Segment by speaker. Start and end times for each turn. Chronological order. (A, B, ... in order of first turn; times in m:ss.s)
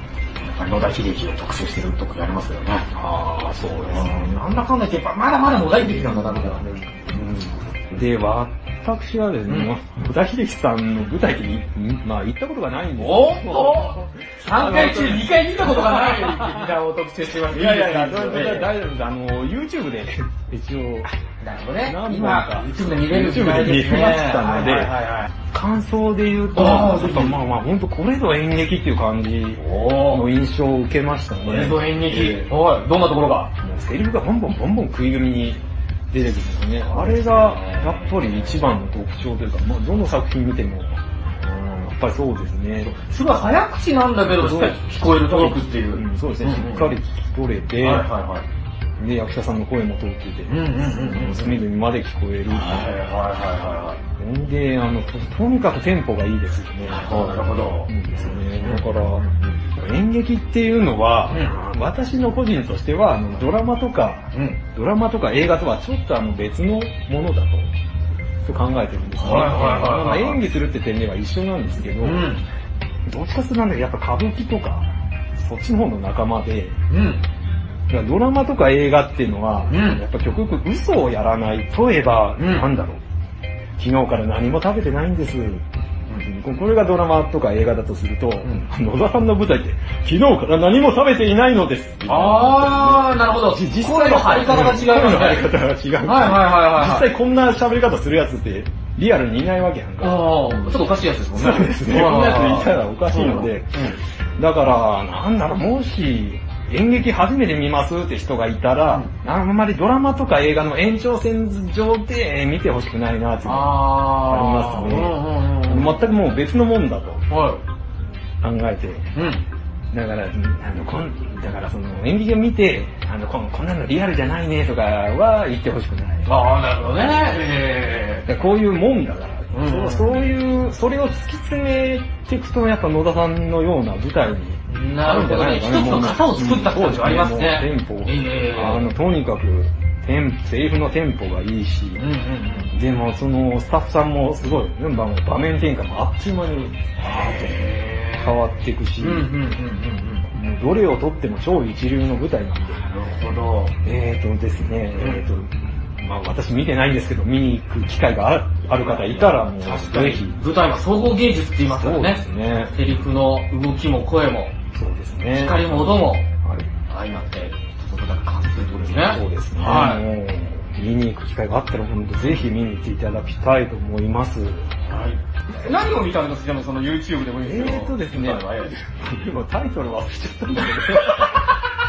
0:00.4-0:02.9 A
0:02.9-0:04.4 B
0:03.8-0:06.7 A
0:06.5-0:16.8 B
0:13.0-0:18.7 A
0:17.5-0:21.1 B
0:21.4-0:25.3 A
0:21.8-0:25.0 B
0:25.5-0:32.5 B
0:26.6-0:27.4 A
0:29.6-0:30.2 A
0:31.4-0:33.5 A
0:33.6-0:42.9 B
0:36.9-0:38.1 A
0:42.8-0:46.9 A
0:44.3-0:48.1 B
0:47.8-0:48.5 A
0:49.0-0:52.9 B
0:50.5-0:51.6 A
0:52.5-0:54.0 A
0:54.2-1:07.7 B
0:56.9-0:59.6 A
1:04.3-1:04.6 A
1:08.4-1:12.3 B
1:09.2-1:10.4 A
1:12.0-1:12.4 A
1:13.1-1:16.8 B
1:16.9-1:17.2 A
1:17.9-1:23.0 B
1:19.7-1:20.0 A
1:22.4-1:22.7 A
1:23.8-1:25.7 B
1:26.2-1:40.8 B
1:32.1-1:35.5 A
1:36.0-1:37.1 A
1:40.0-1:44.0 A
1:41.3-1:43.9 B
1:44.4-1:57.2 B
1:53.4-1:56.0 A
1:57.3-1:57.6 A
1:58.4-1:59.1 B
1:59.1-1:59.4 A
1:59.9-2:06.3 B
2:06.2-2:08.3 A
2:08.3-2:22.0 B
2:09.5-2:10.2 A
2:14.7-2:18.9 A
2:22.0-2:22.7 A
2:22.7-2:27.6 B
2:27.0-2:28.4 A
2:28.2-2:29.4 B
2:29.0-2:30.3 A
2:30.3-2:32.8 B
2:32.7-2:33.8 A
2:33.8-2:40.4 B
2:35.0-2:35.2 A
2:38.8-2:42.2 A
2:41.7-2:42.8 B
2:42.7-2:44.6 A
2:44.7-2:46.7 B
2:45.3-2:46.3 A
2:46.9-2:50.0 A
2:48.9-2:54.7 B
2:54.8-2:58.8 A
2:57.4-3:01.6 B
3:01.0-3:01.5 A